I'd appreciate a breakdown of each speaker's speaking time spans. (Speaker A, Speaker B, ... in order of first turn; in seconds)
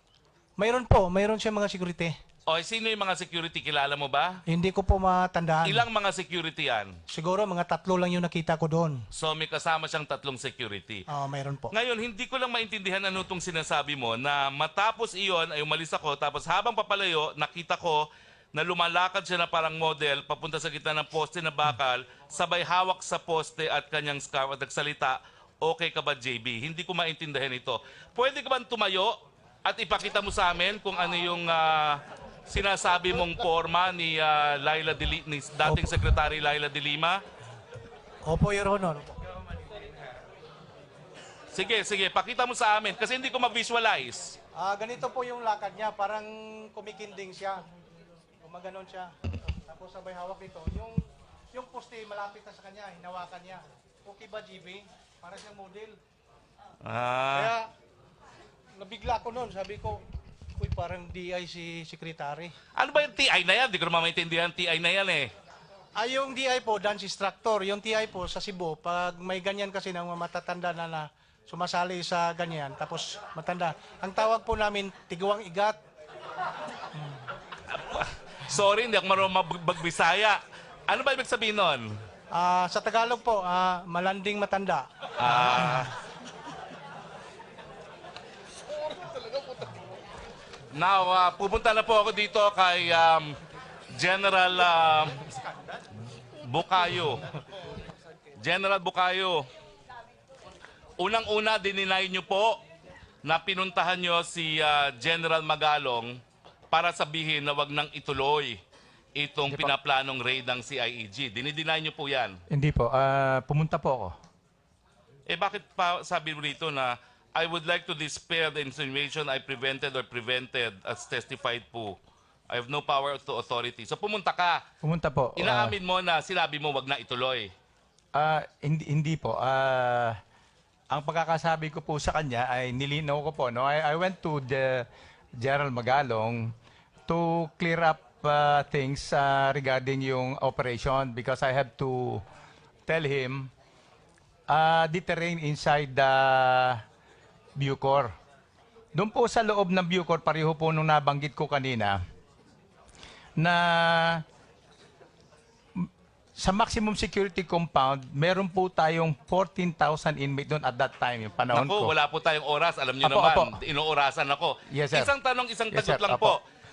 Speaker A: 0.6-2.1, 4.5-5.8, 7.1-9.0, 11.1-11.7, 35.7-35.9, 38.2-39.2, 44.5-47.6, 48.4-56.0, 57.3-57.7, 58.8-60.0, 60.6-62.5, 66.0-75.8, 77.0-77.2, 82.3-85.8
Speaker B: 2.5-4.4, 5.6-7.0, 9.1-11.0, 11.7-37.2, 41.5-44.4, 56.8-57.5, 62.8-65.3, 77.7-82.0, 85.2-85.9, 90.7-93.4, 93.9-95.2, 96.4-97.3, 98.4-99.5, 101.0-102.6, 103.2-106.2, 106.7-108.6, 109.2-112.4, 115.3-122.0, 122.5-124.6, 125.3-127.5, 161.5-166.4
Speaker C: 112.5-114.2, 124.8-125.8, 128.1-130.2, 130.9-136.5, 137.1-142.2, 142.9-143.5, 144.5-146.8, 147.6-148.1, 148.9-152.0, 153.4-154.2, 155.7-161.9, 163.0-163.6, 164.7-165.1, 165.7-166.4